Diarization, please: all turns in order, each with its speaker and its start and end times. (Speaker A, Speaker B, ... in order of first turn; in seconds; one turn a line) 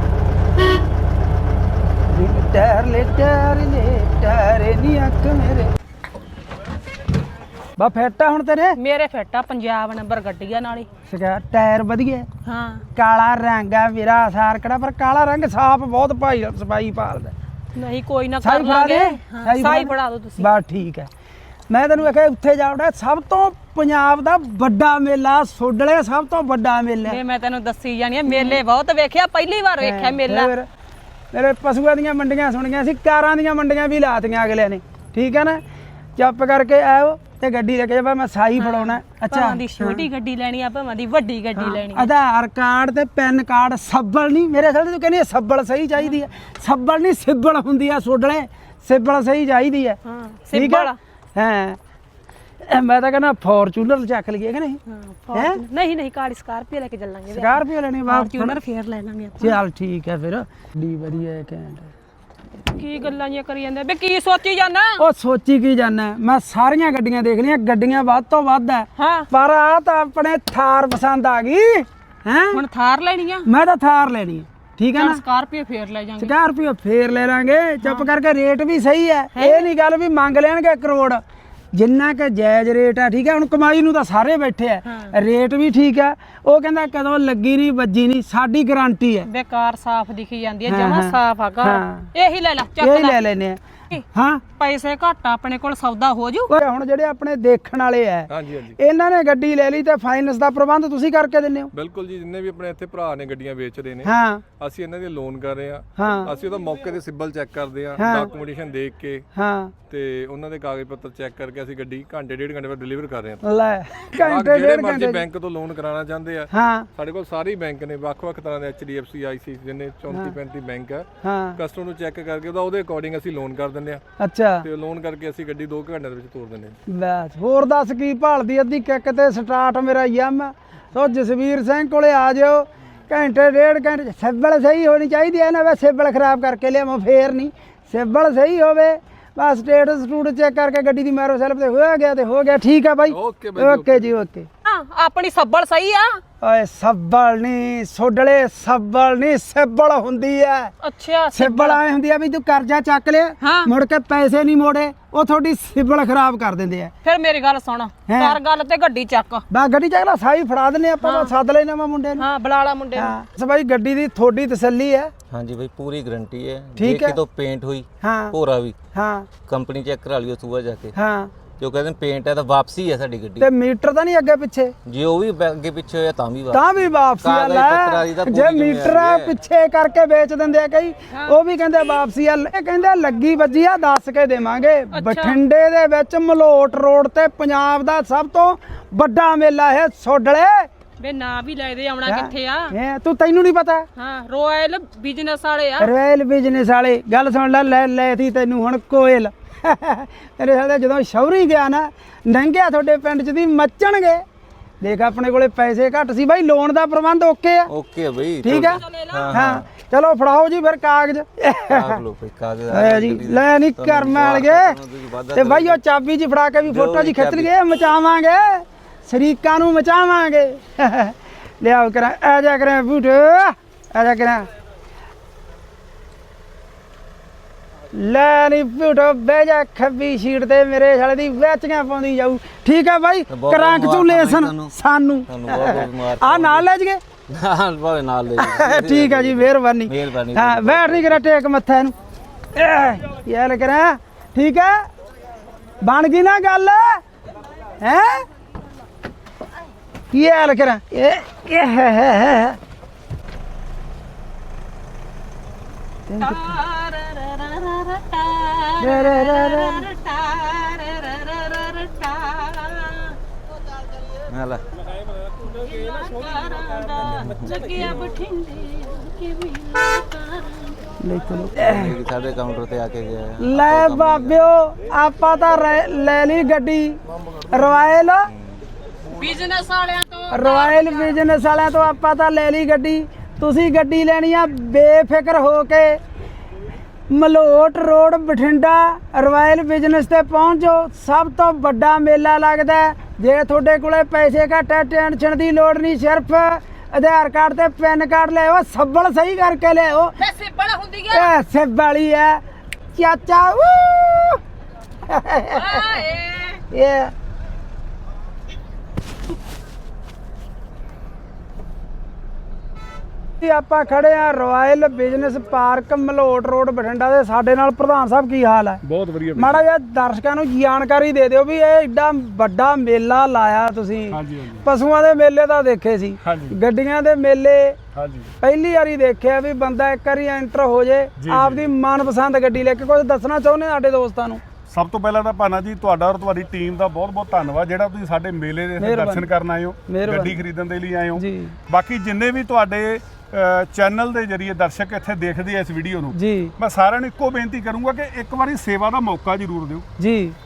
Speaker A: 2.1-5.7
Speaker A: 7.8-8.8
Speaker B: 8.8-10.9
Speaker A: 11.1-12.3
Speaker B: 12.4-12.8
Speaker A: 12.9-17.3
Speaker B: 17.8-20.5
Speaker A: 18.4-21.1
Speaker A: 21.7-27.2
Speaker B: 27.1-30.5
Speaker A: 28.3-28.6
Speaker A: 29.8-30.7
Speaker A: 31.3-35.6
Speaker A: 36.2-40.1
Speaker B: 38.6-42.1
Speaker A: 41.6-50.0
Speaker B: 50.0-51.0
Speaker A: 50.5-51.8
Speaker A: 52.6-54.8
Speaker B: 54.9-59.6
Speaker A: 55.3-55.6
Speaker A: 57.3-58.6
Speaker A: 59.4-61.9
Speaker B: 62.7-65.0
Speaker A: 65.0-72.6
Speaker B: 69.0-69.3
Speaker B: 72.5-73.5
Speaker A: 73.5-75.2
Speaker B: 74.9-76.3
Speaker A: 76.2-81.2
Speaker B: 77.8-78.1
Speaker B: 79.4-79.7
Speaker A: 81.7-89.3
Speaker B: 89.2-93.2
Speaker A: 90.7-92.1
Speaker A: 92.8-93.6
Speaker A: 94.1-94.4
Speaker B: 94.6-96.5
Speaker A: 96.5-101.7
Speaker C: 98.3-98.8
Speaker C: 101.7-109.2
Speaker A: 104.0-104.4
Speaker A: 106.0-106.3
Speaker A: 108.0-108.3
Speaker A: 109.3-109.7
Speaker C: 109.9-113.4
Speaker A: 113.4-115.2
Speaker C: 114.1-124.0
Speaker A: 116.5-116.9
Speaker A: 121.2-121.6
Speaker A: 124.2-124.7
Speaker C: 124.6-126.8
Speaker A: 126.9-144.5
Speaker C: 143.1-144.1
Speaker B: 144.6-146.2
Speaker A: 146.4-150.7
Speaker B: 150.8-151.8
Speaker A: 151.3-156.9
Speaker B: 153.4-153.7
Speaker B: 157.0-159.4
Speaker A: 158.1-158.4
Speaker A: 159.5-162.2
Speaker B: 161.0-161.3
Speaker B: 162.2-163.2
Speaker A: 162.9-165.1
Speaker D: 165.3-168.8
Speaker A: 166.8-167.2
Speaker A: 168.0-168.4
Speaker A: 168.9-169.3
Speaker D: 169.4-170.9
Speaker A: 170.9-171.3
Speaker D: 171.6-173.5
Speaker A: 173.4-174.8
Speaker D: 174.8-179.4
Speaker A: 176.5-190.7
Speaker B: 184.9-185.4
Speaker B: 191.0-192.7
Speaker A: 192.1-193.9
Speaker B: 194.0-195.9
Speaker A: 195.8-204.2
Speaker A: 204.8-207.7
Speaker D: 207.7-209.7
Speaker A: 208.4-212.0
Speaker B: 208.6-209.3
Speaker D: 211.7-215.8
Speaker A: 212.7-214.8
Speaker A: 215.3-224.5
Speaker D: 216.7-217.5
Speaker A: 227.9-237.0
Speaker D: 233.3-234.7
Speaker D: 235.3-236.7
Speaker D: 237.3-241.2
Speaker A: 238.4-241.9
Speaker A: 242.5-244.8
Speaker A: 245.8-247.0
Speaker A: 247.8-248.2
Speaker A: 250.1-252.6
Speaker A: 256.1-256.5
Speaker B: 256.2-263.2
Speaker A: 258.8-259.9
Speaker D: 264.3-264.6
Speaker B: 265.5-270.7
Speaker D: 267.0-267.9
Speaker A: 271.0-272.0
Speaker D: 271.6-274.5
Speaker A: 273.4-278.3
Speaker B: 279.1-281.2
Speaker A: 280.3-286.0
Speaker A: 287.1-300.2
Speaker B: 300.2-301.3
Speaker A: 301.1-302.4
Speaker A: 303.0-304.4
Speaker A: 305.1-306.0
Speaker B: 305.5-306.6
Speaker A: 306.7-307.1
Speaker A: 313.4-318.8
Speaker E: 318.8-319.6
Speaker A: 319.3-327.8
Speaker E: 324.1-324.7
Speaker E: 326.2-326.6
Speaker E: 327.9-328.3
Speaker A: 328.4-334.4
Speaker E: 331.2-331.7
Speaker E: 334.7-349.9
Speaker A: 338.8-339.3
Speaker A: 339.9-340.4
Speaker A: 341.2-341.6
Speaker A: 346.1-346.5
Speaker A: 350.0-350.4